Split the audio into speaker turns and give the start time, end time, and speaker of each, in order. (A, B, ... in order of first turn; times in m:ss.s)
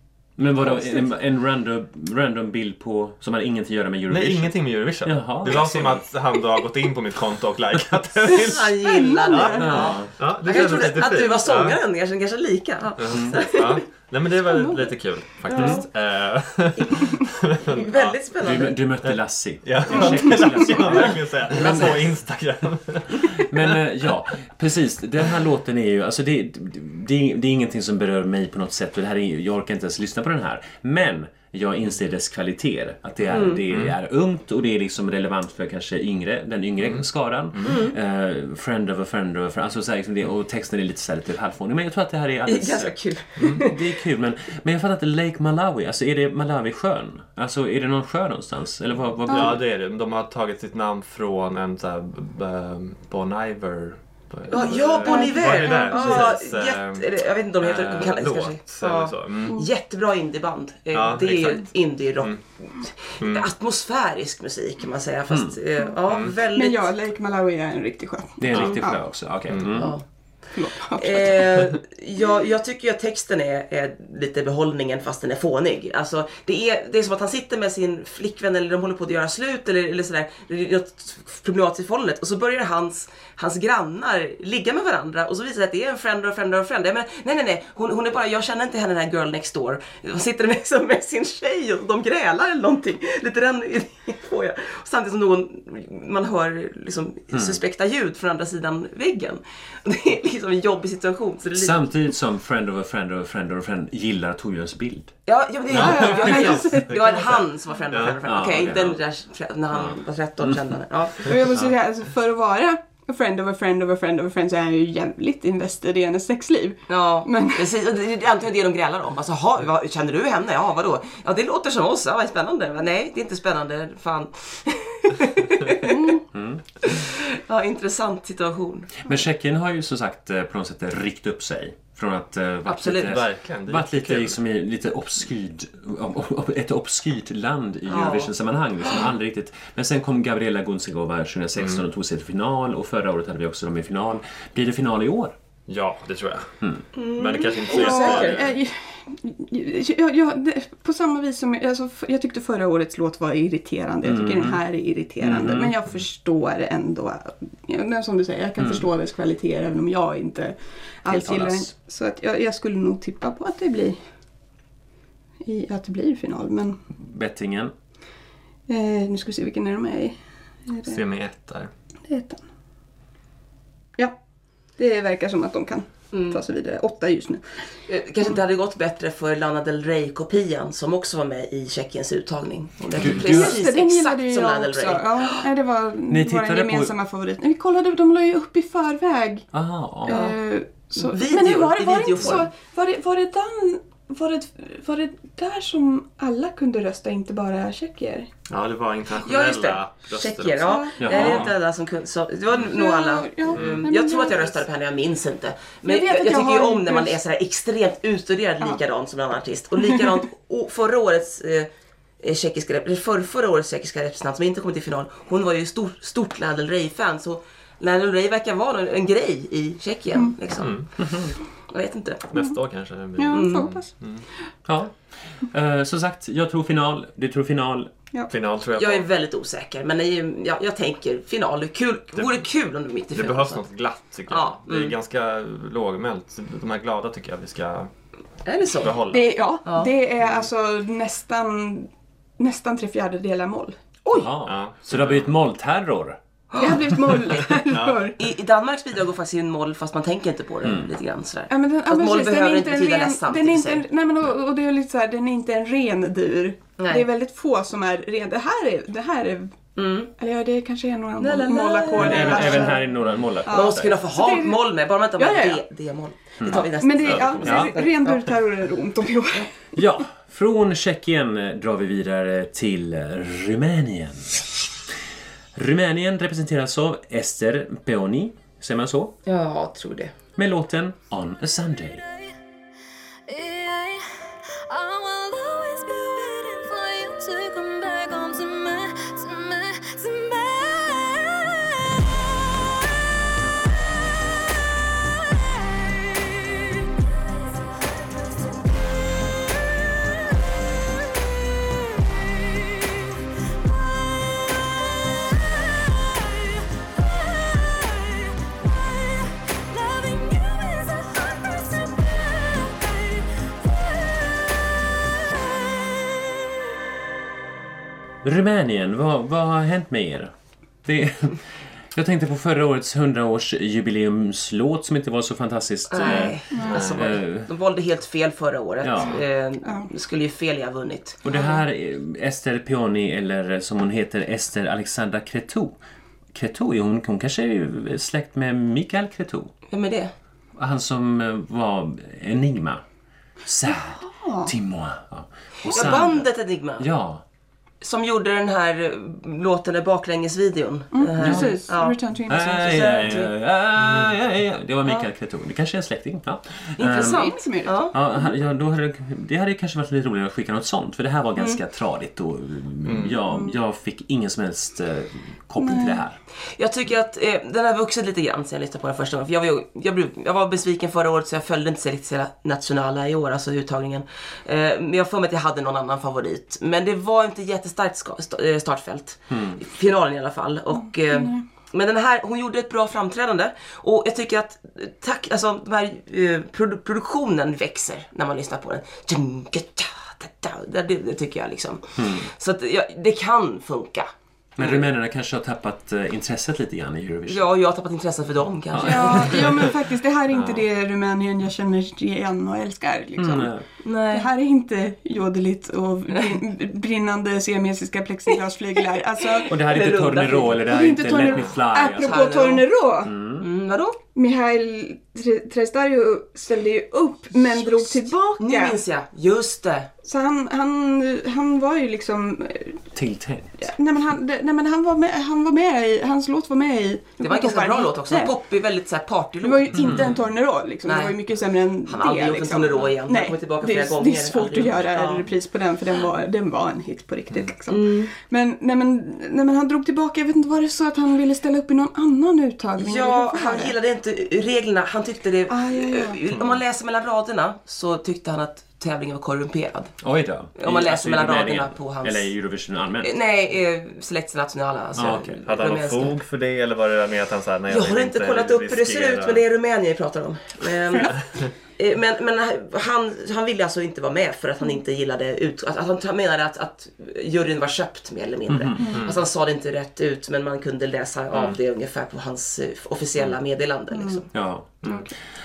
0:00.4-0:06.1 A
0:04.1-0:11.8 B
0:08.3-0:13.8 C
0:08.8-0:09.8 D
0:09.6-0:10.1 A
0:13.0-0:18.2 B
0:13.1-0:13.4 A
0:14.5-0:14.9 D
0:15.5-0:15.8 D
0:15.6-0:15.8 A
0:16.8-0:18.8 C
0:18.4-0:22.2 A
0:19.0-0:23.8 B
0:20.0-0:20.5 D
0:23.3-0:49.6 A
0:33.3-0:33.6 C
0:33.7-0:34.0 B
0:36.8-0:37.8 B
0:37.6-0:38.0 C
0:42.5-0:43.9 C
0:43.4-0:43.6 B
0:49.3-0:57.1 B
0:49.3-0:49.6 D
0:54.5-1:06.9 C
0:54.5-0:56.3 D
0:57.6-0:59.6 B
1:00.9-1:02.4 B
1:03.2-1:03.5 B
1:05.3-1:05.6 A
1:06.1-1:06.3 B
1:06.6-1:09.0 D
1:08.4-1:10.0 A
1:09.5-1:09.8 B
1:09.7-1:10.0 C
1:10.5-1:11.5 D
1:11.0-1:41.8 C
1:37.3-1:37.6 A
1:41.5-1:45.1 A
1:45.3-1:51.4 C
1:45.7-1:48.2 B
1:45.7-1:46.9 D
1:48.2-1:49.0 A
1:51.2-1:57.7 D
1:56.9-2:06.2 C
2:05.8-2:06.2 D
2:06.3-2:06.9 A
2:06.8-2:09.0 C
2:09.0-2:25.4 A
2:12.7-2:13.2 C
2:13.0-2:14.4 B
2:17.9-2:18.3 C
2:21.6-2:21.8 B
2:25.7-2:26.5 B
2:27.0-2:28.4 C
2:27.1-2:28.5 B
2:27.7-2:44.0 D
2:34.0-2:34.6 A
2:35.2-2:35.8 A
2:38.6-2:38.8 A
2:41.1-2:41.7 A
2:45.4-2:46.8 D
2:47.0-2:47.7 A
2:48.7-2:51.0 D
2:50.9-2:51.7 B
2:52.1-2:52.4 D
2:54.8-2:57.4 D
2:56.1-2:56.4 C
2:57.9-3:05.4 C
3:03.0-3:03.6 A
3:03.0-3:09.5 D
3:06.1-3:06.9 A
3:09.5-3:10.2 A
3:10.0-3:18.3 D
3:10.1-3:10.4 C
3:11.0-3:12.5 C
3:18.5-3:21.5 B
3:19.2-3:31.7 C
3:20.6-3:21.3 D
3:21.0-3:21.5 A
3:22.6-3:24.6 D
3:23.5-3:23.8 B
3:25.8-3:27.2 D
3:29.8-3:30.2 D
3:32.2-3:41.0 C
3:40.6-3:40.9 B
3:41.0-3:41.3 A
3:41.7-3:42.3 C
3:42.3-3:44.2 B
3:43.2-3:43.9 D
3:43.3-3:43.6 C
3:44.7-3:47.9 A
3:48.3-3:49.1 B
3:48.8-3:53.6 C
3:52.2-3:52.4 B
3:53.1-3:57.9 B
3:54.3-3:55.0 C
3:58.4-3:59.0 C
3:58.7-3:59.3 B
3:59.1-4:04.3 D
3:59.7-3:59.9 C
4:04.1-4:06.2 A
4:04.4-4:05.3 B
4:06.5-4:06.9 C
4:06.6-4:08.2 D
4:07.7-4:08.1 B
4:08.2-4:13.9 C
4:10.6-4:10.9 A
4:11.5-4:19.6 D
4:16.8-4:17.1 C
4:19.8-4:20.1 C
4:20.2-4:22.8 D
4:21.2-4:22.9 C
4:21.9-4:24.0 A
4:23.5-4:24.6 D
4:23.5-4:28.4 C
4:25.2-4:25.6 D
4:26.4-4:26.7 A
4:26.8-4:29.5 D
4:27.0-4:27.7 B
4:29.8-4:34.4 A
4:35.6-4:39.1 A
4:39.3-4:40.1 C
4:40.4-4:42.0 A
4:43.3-4:52.0 E
4:55.0-4:56.8 E
4:59.8-5:00.4 E
5:01.7-5:16.3 E
5:18.2-5:20.3 A
5:20.8-5:27.5 A
5:25.9-5:31.6 C
5:26.2-5:26.8 D
5:26.7-5:27.1 B
5:28.8-5:29.2 A
5:29.6-5:29.9 D
5:31.2-5:35.8 A
5:36.3-5:39.5 A
5:39.7-5:40.1 C
5:40.6-5:42.8 A
5:43.4-5:46.3 A
5:43.7-5:44.5 D
5:45.6-5:46.9 C
5:46.8-5:47.2 A
5:47.8-5:52.0 C
5:50.9-5:53.1 D
5:51.2-5:51.6 A
5:52.3-5:57.3 A
5:52.5-5:53.3 C
5:53.8-5:54.1 B
5:56.8-5:58.0 C
5:56.9-5:57.8 D
5:57.9-6:06.2 A
6:02.8-6:03.2 B
6:05.6-6:06.0 D
6:06.6-6:34.8 C
6:19.3-6:19.6 A
6:20.8-6:21.4 D
6:32.0-6:32.3 A
6:34.6-6:37.4 A
6:37.3-6:39.5 C
6:38.7-6:39.6 A
6:38.8-6:43.5 D
6:40.3-6:40.6 B
6:43.2-6:43.6 A
6:43.8-6:44.3 C
6:44.1-6:49.5 D
6:49.2-6:50.6 C
6:49.5-6:52.4 A
6:50.7-6:53.1 D
6:52.0-6:52.7 C
6:53.0-6:53.5 A
6:53.4-6:54.0 C
6:54.1-6:58.8 D
6:57.5-6:59.9 C
7:00.0-7:02.8 D
7:03.0-7:03.6 A
7:03.6-7:08.3 D
7:07.2-7:10.2 C
7:09.4-7:23.7 D
7:09.8-7:10.1 A
7:10.8-7:11.2 C
7:11.9-7:15.3 C
7:17.7-7:18.1 C
7:22.8-7:29.9 C
7:25.5-7:26.2 D
7:26.3-7:26.6 B
7:30.0-7:33.2 A
7:30.6-7:32.3 C
7:33.0-7:36.2 C
7:35.0-7:35.4 A
7:35.4-7:39.4 B
7:37.7-7:54.3 C
7:48.5-7:48.9 A
7:48.8-7:49.0 D
7:48.9-7:49.2 B
7:53.9-7:54.2 D
7:54.3-7:55.0 A
7:54.8-7:55.1 D